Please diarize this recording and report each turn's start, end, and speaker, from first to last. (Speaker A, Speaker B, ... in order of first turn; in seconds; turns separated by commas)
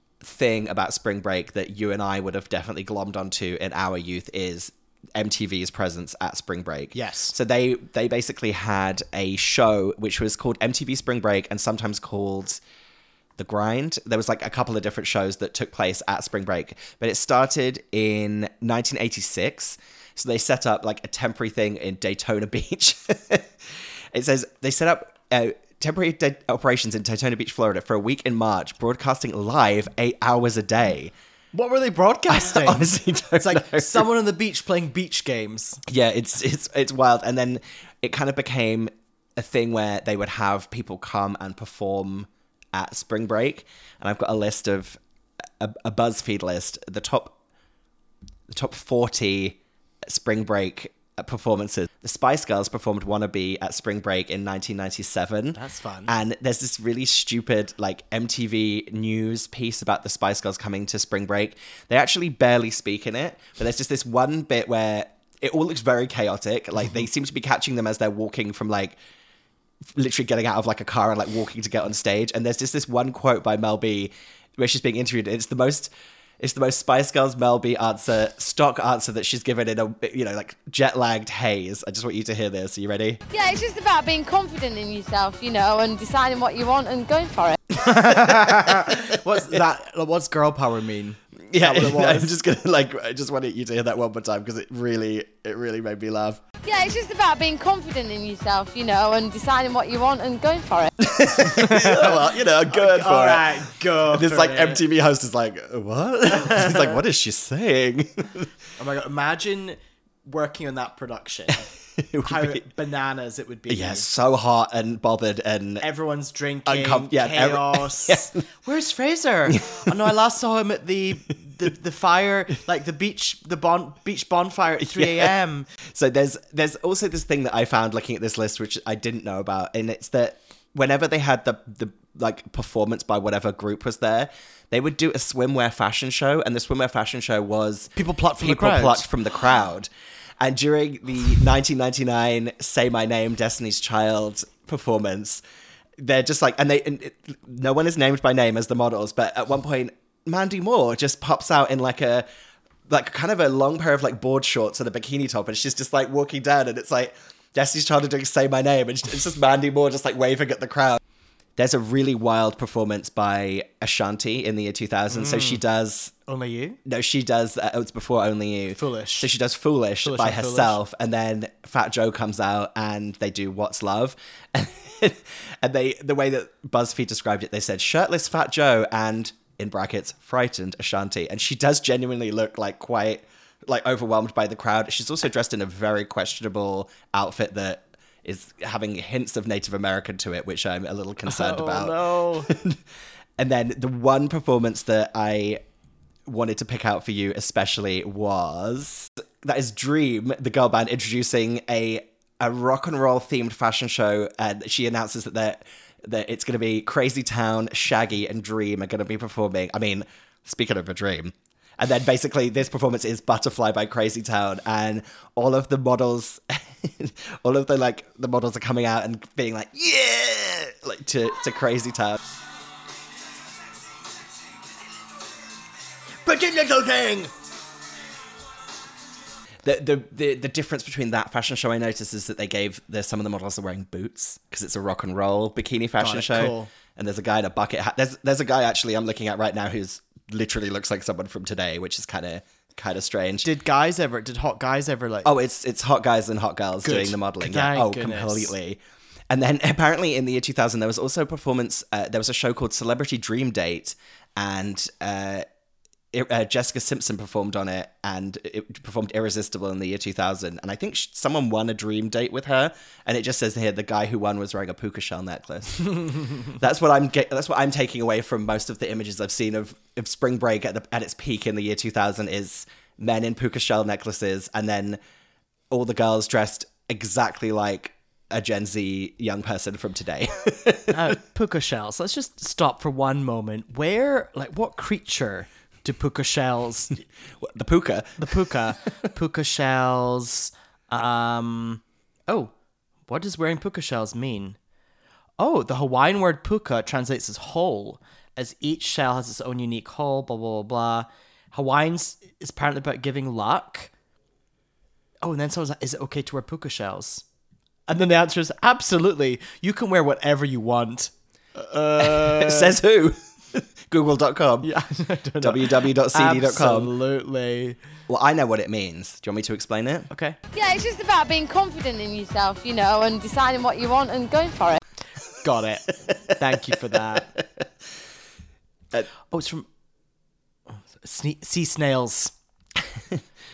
Speaker A: 0.2-12.6, Speaker B: 6.9-7.3, Speaker A: 13.4-23.5, Speaker A: 24.1-31.1, Speaker B: 31.5-35.8, Speaker A: 32.3-34.1, Speaker A: 35.9-45.0, Speaker A: 45.6-47.4, Speaker A: 48.5-69.0, Speaker B: 55.5-56.1, Speaker A: 69.9-83.2, Speaker C: 83.3-87.6, Speaker B: 87.8-92.3, Speaker A: 88.0-89.0, Speaker A: 91.5-96.4, Speaker C: 96.6-100.9, Speaker A: 101.0-108.5, Speaker B: 101.4-104.8, Speaker B: 108.8-111.6, Speaker A: 112.0-112.7, Speaker B: 112.2-114.1, Speaker A: 113.7-115.9, Speaker B: 115.8-125.7, Speaker A: 116.7-118.4, Speaker A: 119.5-119.9, Speaker A: 124.9-125.3, Speaker A: 125.8-139.9, Speaker B: 138.0-139.1, Speaker A: 140.4-145.4, Speaker A: 146.0-152.3, Speaker A: 152.9-161.0, Speaker A: 161.6-166.1, Speaker B: 165.1-165.6, Speaker B: 166.3-166.8, Speaker A: 166.8-192.8, Speaker B: 168.8-169.3, Speaker B: 170.0-170.8, Speaker B: 191.3-192.5, Speaker A: 193.4-195.6, Speaker A: 196.3-222.2, Speaker B: 226.3-227.3, Speaker A: 229.6-243.5, Speaker B: 236.0-236.7, Speaker B: 243.4-245.3, Speaker A: 245.2-255.5, Speaker B: 246.8-248.5, Speaker A: 256.1-275.0, Speaker A: 275.7-281.2, Speaker B: 280.9-287.0, Speaker A: 287.4-288.5, Speaker B: 288.2-292.5, Speaker B: 293.1-294.6, Speaker B: 295.4-303.9, Speaker B: 305.2-307.2, Speaker B: 307.9-312.8, Speaker A: 312.0-314.7, Speaker B: 314.6-317.8, Speaker A: 315.4-316.9, Speaker A: 318.1-320.1, Speaker B: 320.1-320.4, Speaker C: 320.5-324.8, Speaker B: 325.4-327.3, Speaker A: 326.7-327.4, Speaker B: 329.3-329.7, Speaker B: 330.9-332.3